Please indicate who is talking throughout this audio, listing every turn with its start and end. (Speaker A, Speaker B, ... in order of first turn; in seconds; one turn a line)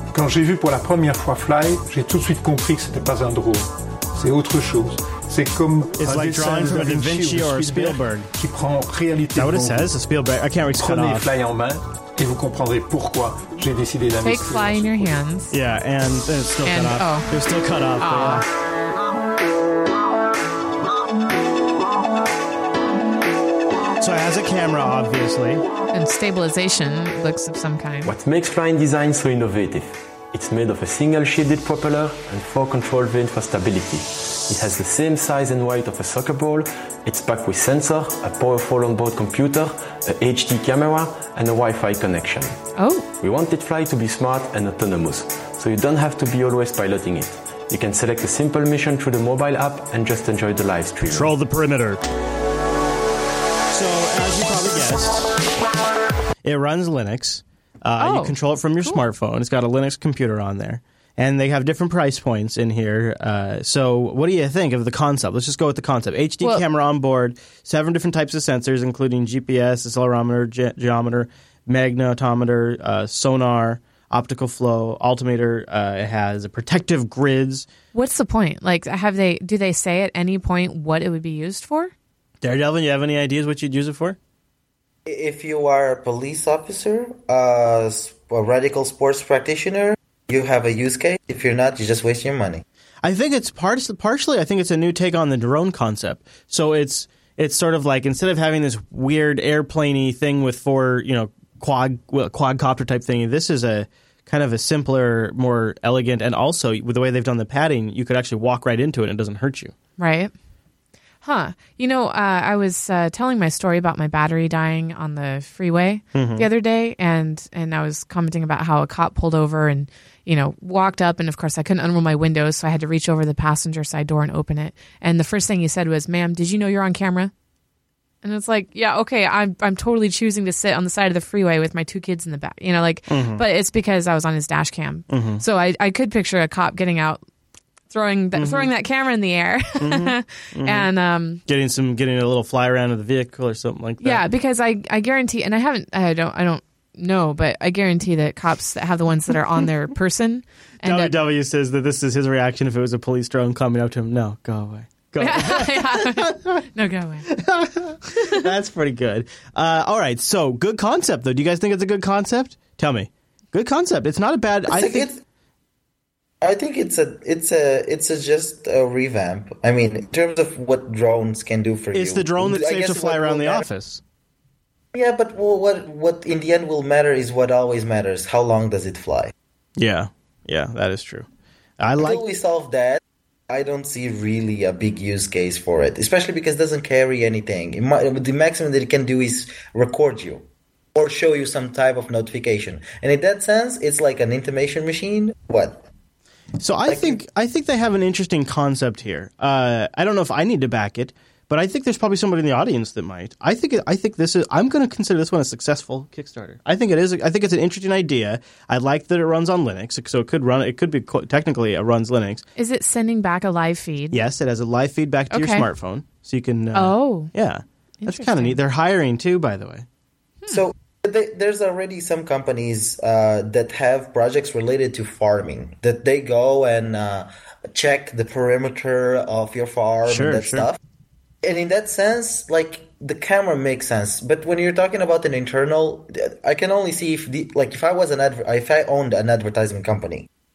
Speaker A: 0.1-9.9
Speaker B: 6.0-8.3
Speaker B: 9.3-11.3
Speaker A: 10.7-15.1
Speaker C: 14.2-15.5
Speaker B: 15.5-18.4
Speaker C: 16.6-17.3
Speaker C: 18.0-18.4
Speaker B: 24.0-25.6
Speaker C: 25.9-28.1
Speaker D: 28.0-42.5
Speaker C: 42.8-43.0
Speaker D: 43.2-51.3
Speaker B: 51.1-52.0
Speaker B: 53.7-55.4
Speaker B: 56.4-77.7
Speaker C: 58.0-59.0
Speaker C: 77.9-81.9
Speaker B: 82.4-84.2
Speaker E: 85.0-92.6
Speaker B: 93.0-109.7
Speaker C: 110.0-110.3
Speaker C: 111.2-127.3
Speaker B: 116.1-116.5
Speaker C: 128.2-137.2
Speaker B: 133.1-133.4
Speaker B: 135.1-135.4
Speaker C: 137.9-141.4
Speaker B: 138.3-138.7
Speaker B: 139.8-140.9
Speaker B: 141.4-144.2
Speaker C: 144.0-151.2
Speaker B: 150.8-156.7
Speaker C: 155.2-157.3
Speaker B: 157.3-165.1
Speaker E: 164.7-165.2
Speaker E: 166.4-173.7
Speaker B: 171.9-174.0
Speaker E: 174.9-179.3
Speaker B: 179.8-181.3
Speaker B: 181.8-182.2
Speaker E: 182.0-195.8
Speaker B: 196.6-212.4
Speaker E: 196.9-197.2
Speaker C: 212.6-214.2
Speaker B: 214.1-219.8
Speaker C: 215.3-215.7
Speaker C: 216.7-217.3
Speaker C: 218.0-218.6
Speaker E: 220.5-230.8
Speaker B: 230.1-230.7
Speaker E: 231.4-240.3